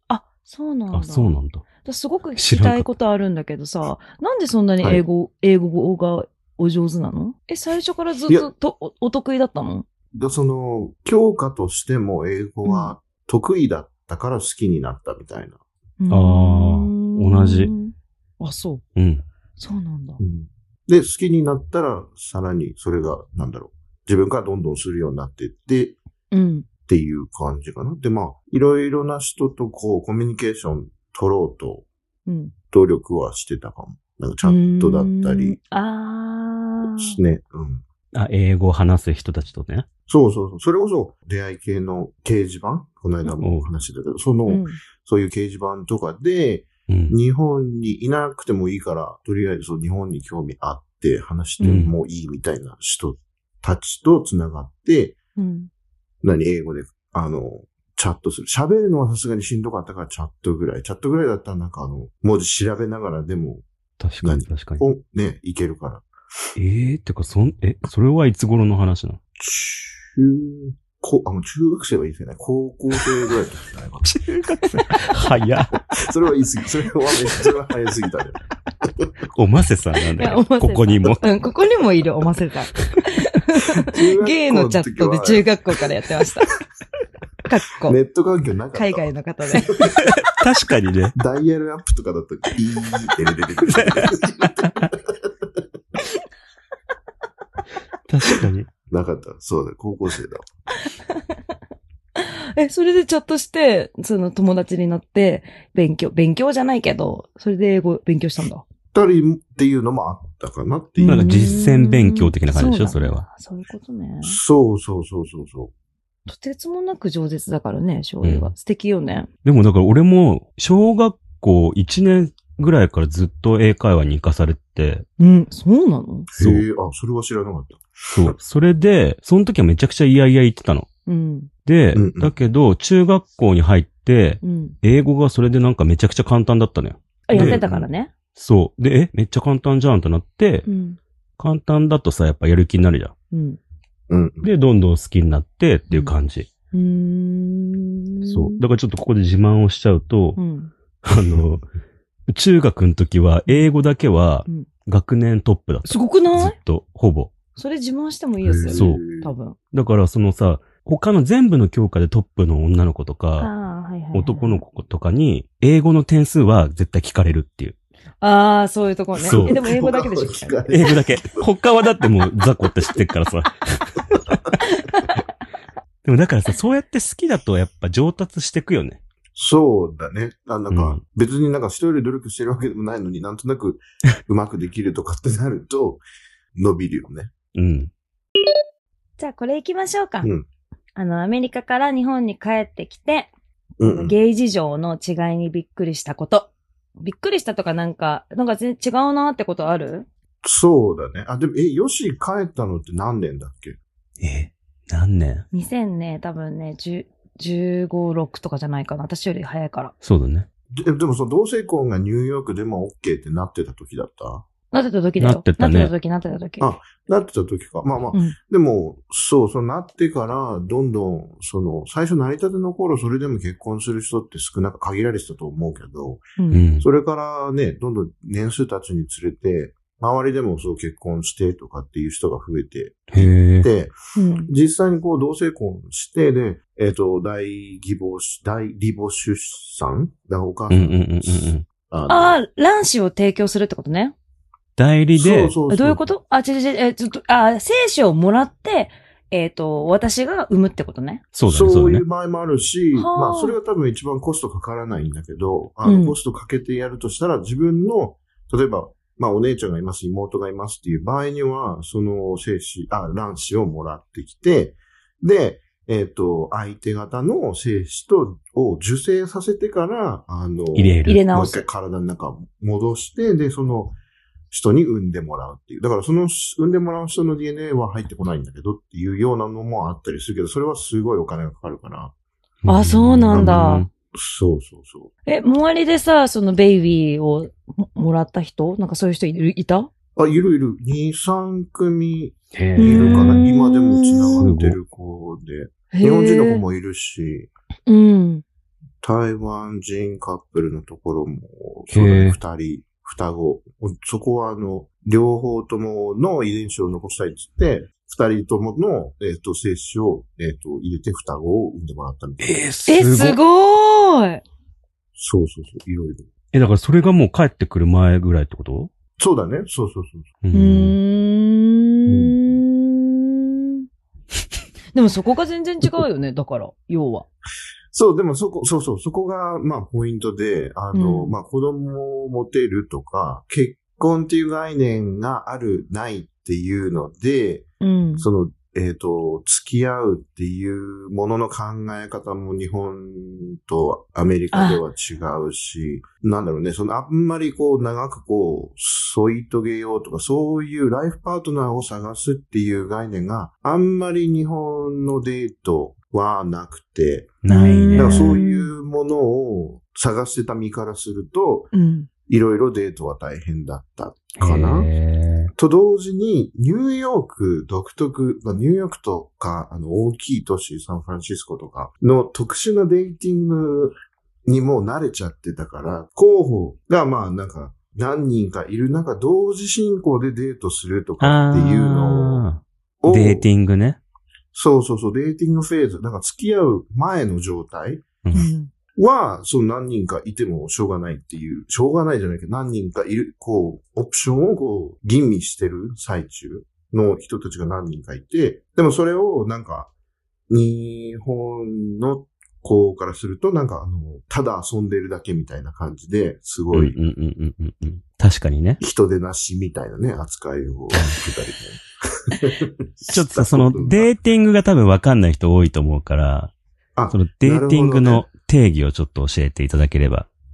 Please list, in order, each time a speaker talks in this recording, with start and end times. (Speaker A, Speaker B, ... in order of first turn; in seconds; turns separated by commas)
Speaker A: 0.1-9.9, Speaker B: 0.9-1.6, Speaker B: 2.4-2.9, Speaker C: 10.2-15.6, Speaker A: 12.7-12.9, Speaker A: 16.0-18.8, Speaker B: 16.1-17.7, Speaker B: 19.0-19.2, Speaker A: 19.6-20.2, Speaker C: 20.2-26.0, Speaker A: 26.3-26.7, Speaker C: 26.9-31.9, Speaker A: 32.3-32.5, Speaker C: 32.7-35.6, Speaker A: 34.4-37.2, Speaker C: 37.0-37.8, Speaker B: 38.1-39.9, Speaker C: 40.1-55.2, Speaker B: 43.4-43.7, Speaker A: 44.5-44.8, Speaker B: 46.9-47.2, Speaker A: 51.6-51.9, Speaker B: 51.6-51.9, Speaker A: 55.4-55.7, Speaker C: 56.2-63.6, Speaker B: 64.0-64.8, Speaker C: 64.2-66.1, Speaker B: 66.6-69.2, Speaker C: 69.4-74.1, Speaker B: 74.0-75.8, Speaker C: 75.9-79.1, Speaker B: 79.3-81.2, Speaker A: 80.2-86.5, Speaker C: 83.8-85.5, Speaker A: 87.5-88.0, Speaker C: 87.8-90.0, Speaker A: 88.7-90.0, Speaker B: 90.0-91.1, Speaker C: 91.2-95.7, Speaker B: 93.7-94.2, Speaker B: 98.1-98.7, Speaker C: 98.9-100.5, Speaker A: 100.8-101.2, Speaker A: 102.2-108.7, Speaker C: 108.9-111.6, Speaker A: 111.0-114.4, Speaker B: 111.1-113.2, Speaker C: 114.2-115.7, Speaker A: 116.3-119.3, Speaker B: 118.2-118.5, Speaker B: 119.5-125.0, Speaker A: 125.2-126.3, Speaker C: 126.3-128.3, Speaker B: 126.4-126.6, Speaker B: 128.1-130.9, Speaker A: 131.1-131.5, Speaker B: 131.7-137.6, Speaker C: 131.9-132.3, Speaker A: 134.4-134.8, Speaker A: 137.3-138.1, Speaker C: 137.3-137.9, Speaker B: 138.3-140.7, Speaker A: 140.7-141.0, Speaker B: 141.4-143.1, Speaker A: 143.3-143.6, Speaker C: 144.1-144.5, Speaker B: 144.4-146.5, Speaker A: 146.7-148.6, Speaker B: 148.3-150.4, Speaker A: 150.4-150.7, Speaker B: 151.0-151.7, Speaker B: 152.3-157.3, Speaker A: 155.8-156.6, Speaker A: 157.6-159.6, Speaker C: 158.4-159.3, Speaker B: 158.7-159.0, Speaker B: 159.7-163.5, Speaker A: 163.4-164.6, Speaker B: 164.1-167.8, Speaker A: 168.2-170.7, Speaker B: 169.2-169.6, Speaker C: 169.2-171.5, Speaker B: 170.7-174.4, Speaker C: 174.1-174.5, Speaker A: 174.6-175.1, Speaker B: 176.1-179.0, Speaker C: 179.3-186.0, Speaker B: 180.7-181.0, Speaker C: 186.6-187.3, Speaker B: 187.6-187.9, Speaker A: 189.2-190.3, Speaker A: 191.0-200.1, Speaker C: 193.8-194.2, Speaker C: 200.4-203.8, Speaker B: 204.2-205.4, Speaker A: 205.5-209.9, Speaker B: 210.0-210.5, Speaker C: 210.7-214.4, Speaker A: 214.7-216.7, Speaker B: 215.2-215.9, Speaker C: 216.6-226.2, Speaker A: 226.4-226.6, Speaker B: 226.5-226.9, Speaker C: 226.8-233.9, Speaker B: 233.1-233.7, Speaker A: 234.2-234.5, Speaker C: 234.5-242.4, Speaker B: 240.7-241.7, Speaker A: 242.1-244.1, Speaker B: 244.8-245.6, Speaker C: 245.2-246.0, Speaker A: 245.7-251.2, Speaker B: 251.3-252.0, Speaker C: 251.5-274.0, Speaker A: 252.9-253.6, Speaker A: 255.8-256.2, Speaker B: 270.8-271.2, Speaker A: 271.1-271.6, Speaker C: 274.5-282.1, Speaker B: 282.6-283.9, Speaker A: 282.7-283.9, Speaker C: 283.3-285.1, Speaker A: 285.3-289.9, Speaker C: 290.2-297.5, Speaker B: 292.5-293.5, Speaker A: 292.8-294.5, Speaker B: 294.4-294.8, Speaker A: 295.9-296.6, Speaker A: 297.9-298.4, Speaker C: 299.0-312.7, Speaker B: 301.9-302.4, Speaker B: 312.4-313.4, Speaker A: 312.9-314.4, Speaker C: 315.2-316.3, Speaker B: 316.5-318.9, Speaker C: 319.2-320.3, Speaker B: 320.4-321.0, Speaker A: 320.5-323.8, Speaker C: 322.1-322.4, Speaker A: 324.9-327.3, Speaker C: 327.9-337.7, Speaker A: 330.9-331.4, Speaker A: 337.8-338.3, Speaker C: 338.2-357.4, Speaker A: 344.5-344.8, Speaker B: 357.4-358.4, Speaker A: 357.5-358.7, Speaker C: 357.9-361.7, Speaker A: 361.7-362.1, Speaker C: 362.3-364.9, Speaker B: 364.4-365.5, Speaker C: 365.5-373.9, Speaker C: 374.5-382.4, Speaker B: 381.2-384.0, Speaker C: 383.0-383.5, Speaker C: 384.5-388.2, Speaker A: 388.3-388.7, Speaker C: 389.0-399.9, Speaker C: 400.5-407.0, Speaker B: 406.7-408.8, Speaker C: 408.8-414.1, Speaker B: 410.9-411.2, Speaker B: 413.1-416.5, Speaker C: 417.0-418.3, Speaker B: 417.1-420.3